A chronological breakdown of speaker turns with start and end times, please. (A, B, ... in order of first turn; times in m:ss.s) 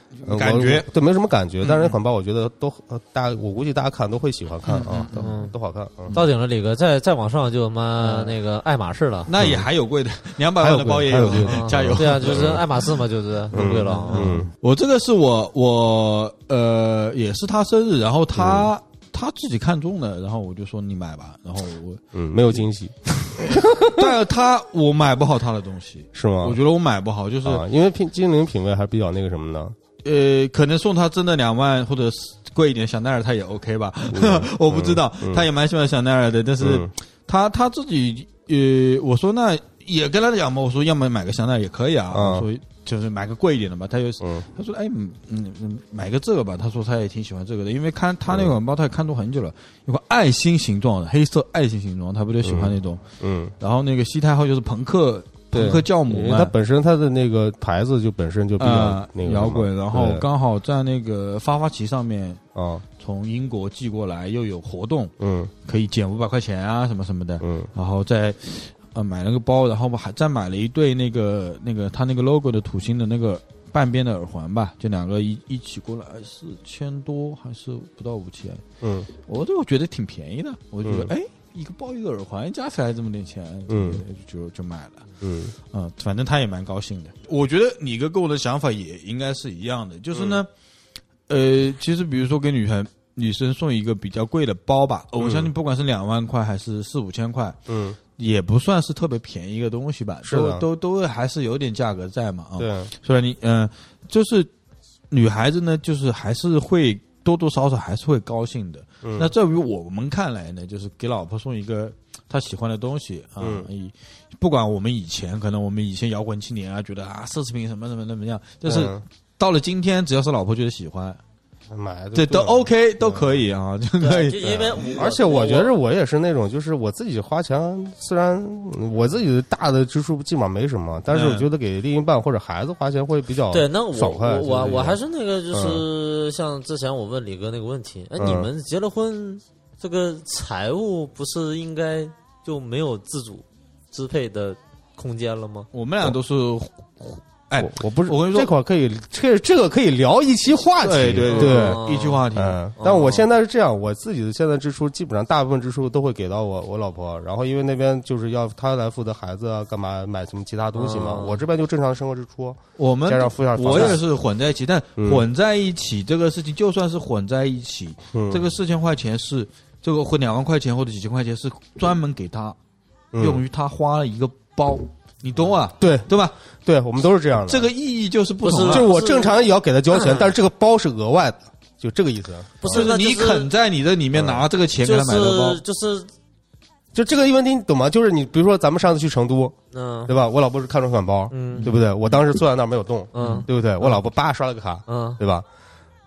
0:00.2-0:00.9 A
0:00.2-0:06.2 B
0:01.6-0:01.9 A
0:04.7-0:05.4 A
0:05.1-0:05.5 C
0:06.1-0:09.3 C
0:08.0-0:08.3 A
0:09.3-0:12.6 A
0:09.4-0:09.7 B
0:10.6-0:12.7 B
0:11.4-0:14.3 C
0:13.5-0:14.5 B
0:14.1-0:22.6 A
0:18.4-0:18.7 B
0:22.1-0:24.1 B
0:23.4-0:27.6 A
0:26.2-0:26.6 B
0:27.4-0:29.8 B
0:30.0-0:53.0 A
0:34.1-0:35.4 B
0:36.6-0:36.9 B
0:42.1-0:42.5 B
0:52.4-0:53.5 B
0:53.6-0:56.5 A
0:55.5-1:00.3 B
0:58.6-1:02.4 A
1:02.6-1:02.8 B
1:03.0-1:05.1 A
1:05.2-1:05.5 B
1:05.6-1:18.6 A
1:07.4-1:07.7 B
1:18.8-1:19.1 B
1:19.2-1:25.0 A
1:20.8-1:21.1 B
1:23.7-1:24.0 B
1:25.2-1:25.5 B
1:25.6-1:30.5 A
1:30.1-1:30.4 B
1:31.3-1:37.6 A
1:35.2-1:35.5 B
1:37.7-1:38.0 B
1:38.2-1:44.5 A
1:40.2-1:40.7 B
1:42.6-1:42.9 B
1:45.1-2:01.2 A
1:49.0-1:49.3 B
1:53.4-1:53.7 B
1:58.6-1:59.0 B
2:01.7-2:03.3 B
2:02.2-2:05.0 A
2:04.0-2:05.7 C
2:04.9-2:15.0 B
2:11.1-2:11.5 A
2:13.5-2:25.7 C
2:15.5-2:15.8 B
2:18.2-2:18.5 B
2:25.7-2:28.5 A
2:27.6-2:31.8 B
2:30.8-2:32.6 A
2:31.3-2:32.2 C
2:32.3-2:44.0 B
2:32.8-2:33.3 C
2:40.7-2:41.4 C
2:42.8-2:52.6 A
2:43.7-2:44.0 C
2:45.0-2:45.2 B
2:48.1-2:48.4 B
2:53.1-2:53.4 B
2:53.2-2:56.4 A
2:55.8-2:56.1 B
2:56.6-2:57.7 B
2:57.4-2:58.9 A
2:58.4-3:00.3 C
2:58.6-3:02.9 B
3:02.6-3:03.5 C
3:02.7-3:05.6 A
3:04.1-3:04.4 B
3:04.8-3:06.1 C
3:06.9-3:09.6 B
3:09.7-3:10.2 C
3:10.1-3:15.5 B
3:11.3-3:11.7 C
3:11.6-3:11.8 A
3:13.1-3:14.0 C
3:13.2-3:13.5 A
3:14.9-3:15.2 C